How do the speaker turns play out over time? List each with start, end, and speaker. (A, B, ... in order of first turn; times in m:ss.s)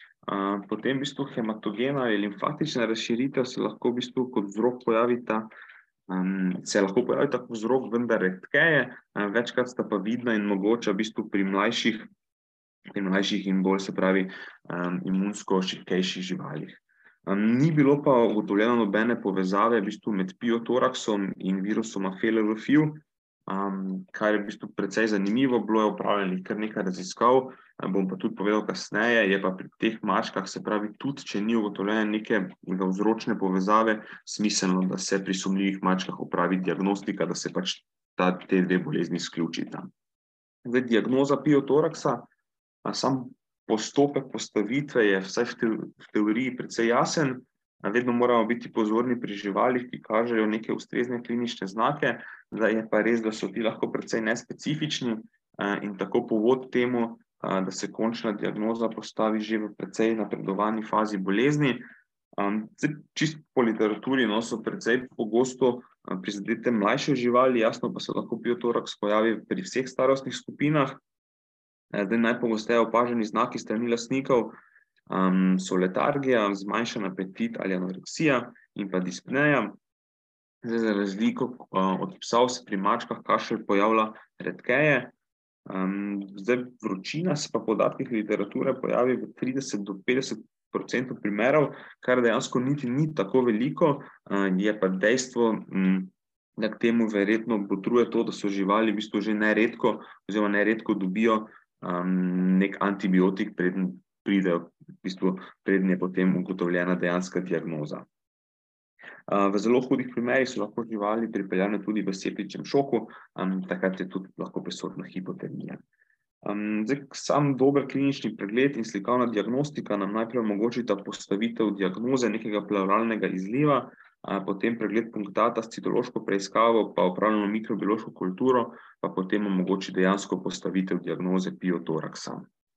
0:00.3-0:05.5 A
0:06.1-0:12.1 A
0:13.0-0:39.9 A
0:40.6-0:42.2 A
0:42.8-1:01.8 A
1:02.4-1:11.0 A
1:11.9-1:14.6 A
1:15.1-1:19.8 A
1:20.6-1:25.1 A
1:25.7-1:48.0 A
1:49.3-1:55.8 A
1:56.4-2:12.5 A